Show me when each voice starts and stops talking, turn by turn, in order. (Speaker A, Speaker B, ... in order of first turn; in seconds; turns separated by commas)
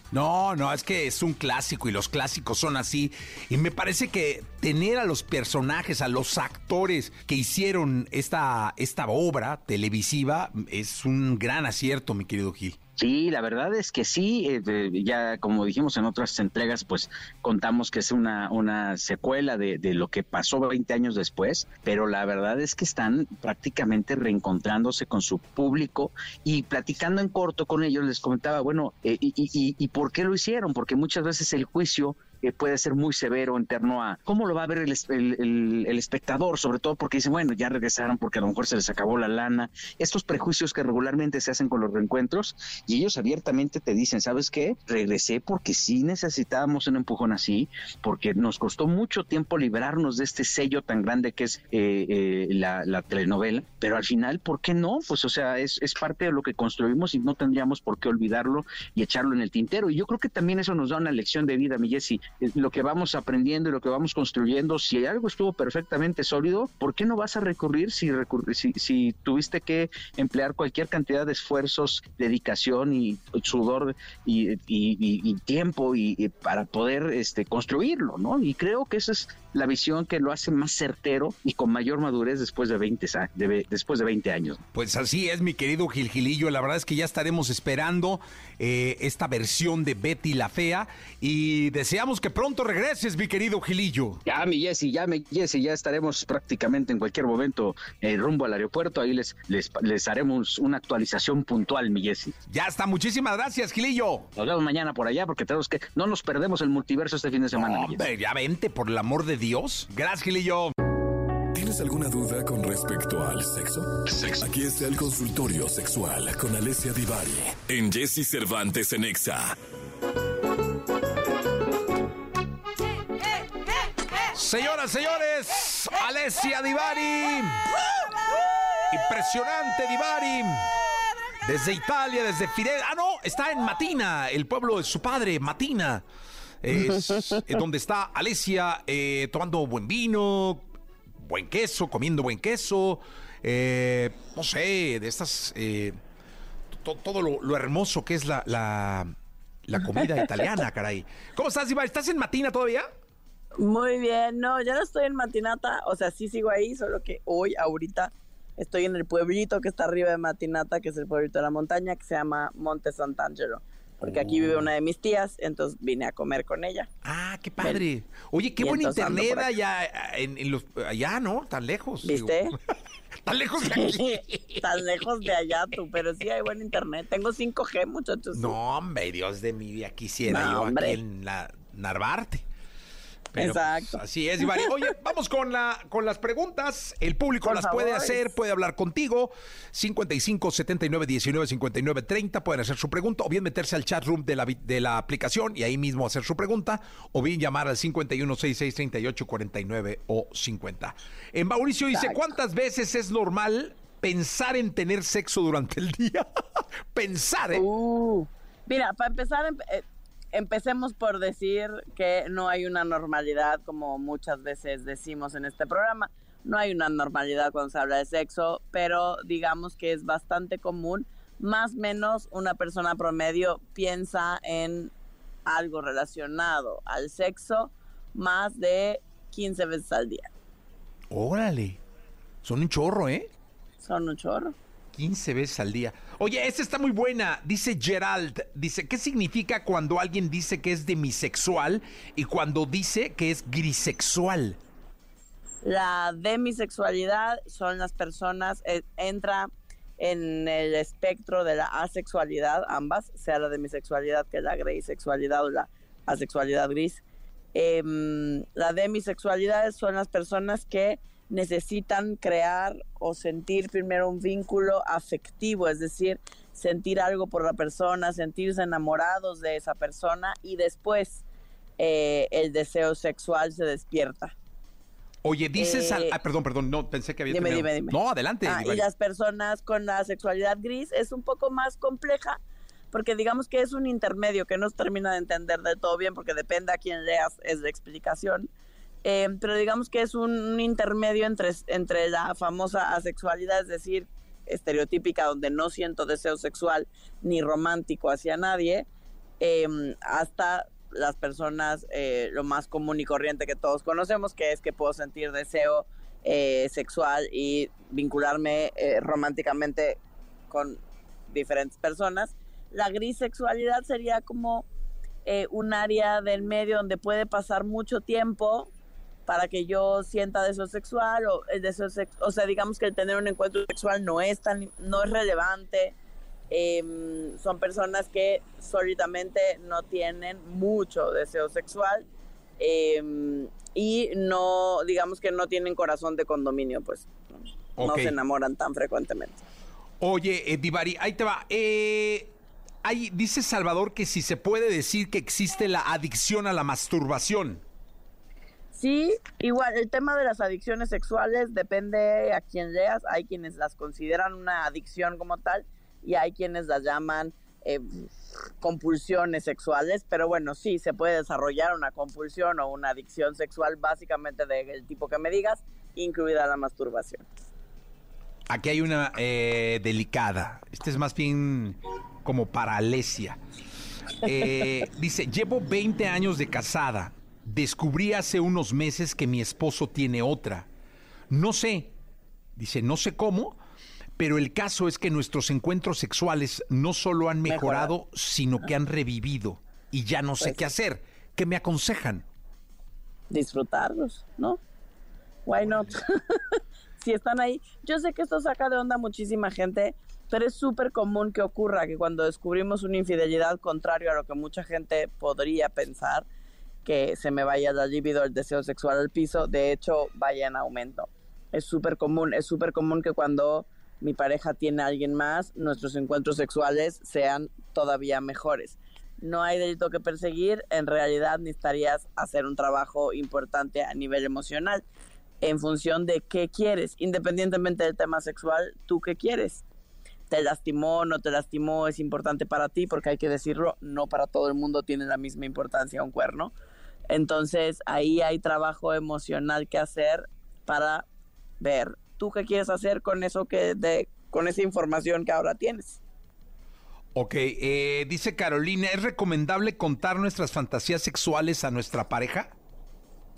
Speaker A: 0.1-12.8, Speaker B: 13.0-84.6, Speaker A: 84.7-94.2, Speaker B: 94.2-102.3, Speaker A: 102.5-104.3, Speaker B: 104.3-108.0, Speaker A: 107.5-110.7, Speaker C: 111.5-119.6, Speaker A: 124.3-127.7, Speaker A: 128.9-130.7, Speaker A: 131.4-136.0, Speaker A: 136.6-146.0, Speaker D: 137.1-137.4, Speaker A: 146.8-149.1, Speaker A: 149.7-152.9, Speaker D: 153.6-166.9, Speaker A: 164.0-164.7, Speaker A: 167.0-172.6, Speaker D: 168.6-169.5, Speaker D: 172.0-172.5, Speaker A: 173.2-174.6, Speaker D: 173.7-178.5, Speaker A: 178.3-182.4, Speaker D: 180.3-181.0, Speaker A: 183.3-207.6, Speaker D: 183.4-184.0, Speaker D: 187.4-188.3, Speaker D: 201.9-202.3, Speaker D: 207.5-224.9, Speaker D: 225.4-230.3, Speaker A: 231.1-231.8, Speaker A: 232.4-233.3, Speaker D: 233.8-234.5, Speaker A: 234.9-244.6, Speaker D: 245.6-257.0, Speaker D: 257.5-271.2, Speaker D: 271.8-274.3, Speaker A: 275.2-278.9, Speaker D: 275.6-276.2, Speaker D: 277.3-282.4, Speaker D: 282.9-288.5, Speaker D: 289.0-298.9, Speaker D: 299.4-310.8, Speaker D: 311.3-314.7, Speaker D: 315.2-318.7, Speaker D: 319.3-325.9, Speaker D: 326.5-332.1, Speaker D: 332.6-337.1, Speaker A: 337.8-338.1, Speaker D: 337.8-339.4, Speaker A: 340.0-347.6, Speaker D: 348.7-367.2, Speaker A: 368.5-373.4, Speaker A: 374.2-380.7, Speaker A: 381.3-381.9, Speaker A: 382.6-383.6, Speaker A: 384.2-392.2, Speaker D: 387.4-387.9, Speaker D: 393.3-394.6, Speaker D: 395.4-406.3, Speaker D: 406.8-424.8, Speaker D: 425.4-429.6, Speaker D: 430.3-436.5, Speaker D: 437.1-441.0, Speaker D: 441.6-446.0, Speaker A: 447.1-452.5